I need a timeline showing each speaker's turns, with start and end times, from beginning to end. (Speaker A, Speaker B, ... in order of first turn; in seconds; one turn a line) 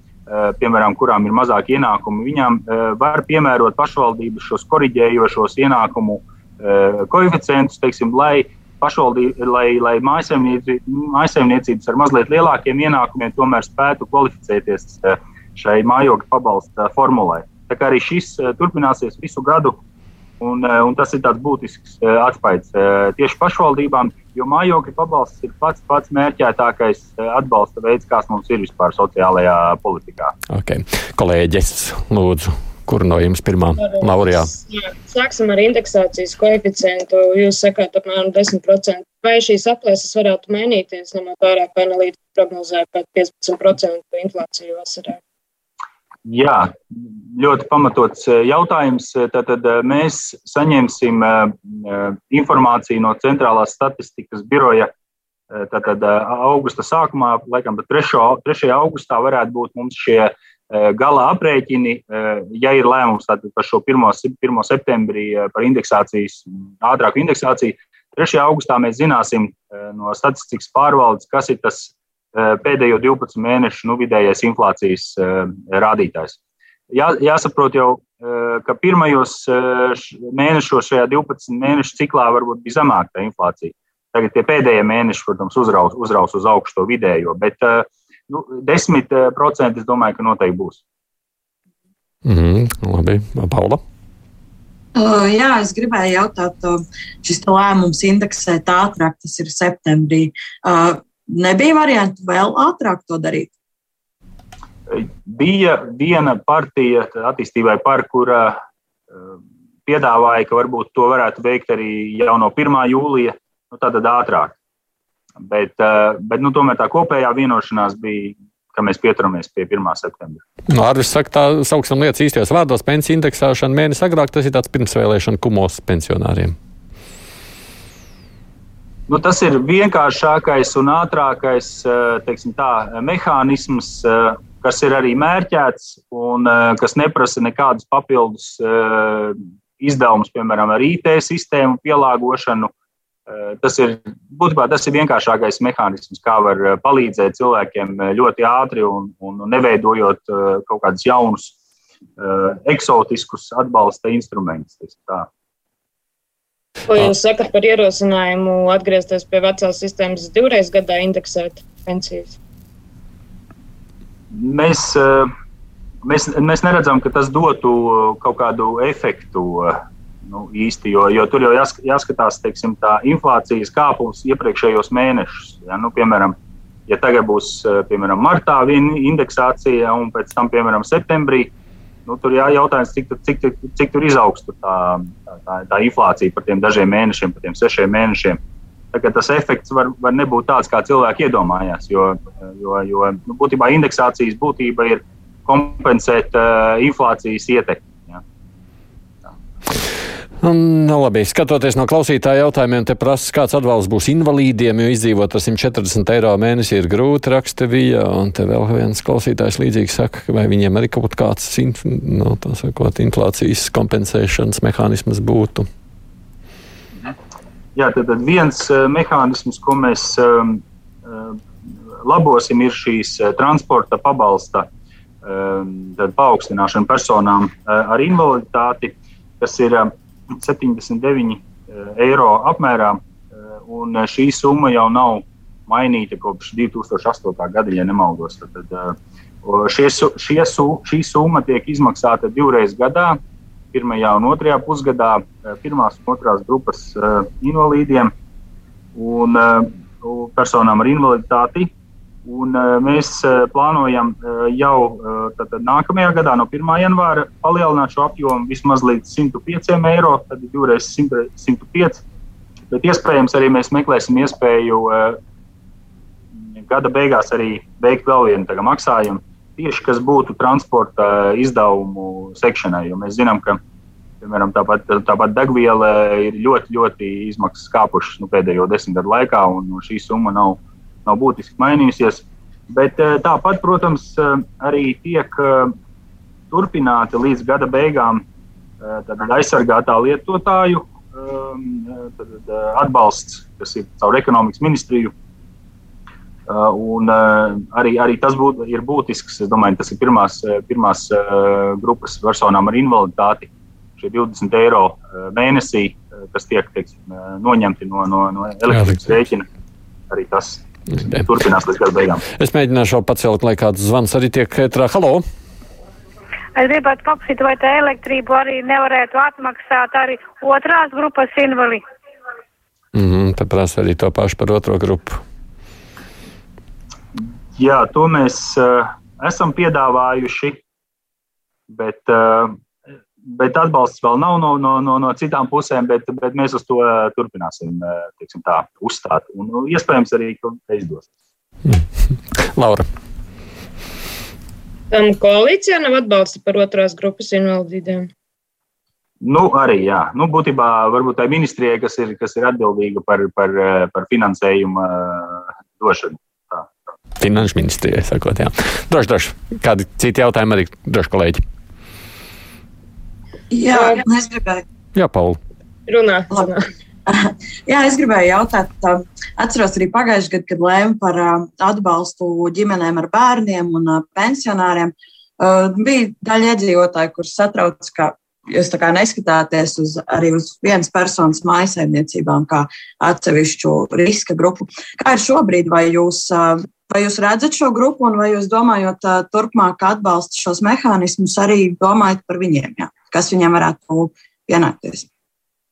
Speaker A: 0.3-19.8
Speaker A: 20.4-30.3
Speaker B: 30.5-34.5
Speaker C: 33.8-45.2
Speaker A: 46.2-54.9
Speaker A: 55.5-76.4
Speaker A: 76.9-90.8
Speaker B: 92.2-93.8
Speaker D: 94.9-103.5
Speaker A: 104.9-108.6
Speaker A: 109.1-114.6
Speaker A: 115.4-120.4
Speaker B: 120.7-126.5
Speaker A: 129.1-142.7
Speaker A: 143.3-151.5
Speaker A: 152.2-155.3
Speaker C: 156.9-162.3
Speaker A: 164.3-165.3
Speaker A: 166.0-176.3
Speaker A: 176.9-181.5
Speaker A: 182.1-188.4
Speaker A: 188.9-198.2
Speaker B: 200.4-215.7
Speaker A: 217.8-221.4
Speaker A: 222.0-224.7
Speaker A: 225.2-233.0
Speaker A: 233.6-243.2
Speaker A: 243.7-248.1
Speaker A: 248.9-251.7
Speaker A: 252.2-262.0
Speaker A: 262.7-265.2
Speaker A: 266.5-273.6
Speaker A: 274.2-285.7
Speaker A: 286.5-288.2
Speaker A: 288.8-295.1
Speaker A: 296.5-309.4
Speaker A: 310.1-312.2
Speaker B: 312.4-315.2
Speaker E: 316.6-321.8
Speaker B: 322.9-325.2
Speaker A: 327.2-330.6
Speaker A: 331.7-332.6
Speaker A: 333.2-341.1
Speaker B: 342.4-342.9
Speaker C: 344.9-348.1
Speaker A: 349.2-356.7
Speaker B: 357.2-361.4
Speaker D: 363.5-364.6
Speaker B: 364.9-365.4
Speaker C: 365.9-366.7
Speaker D: 367.1-395.1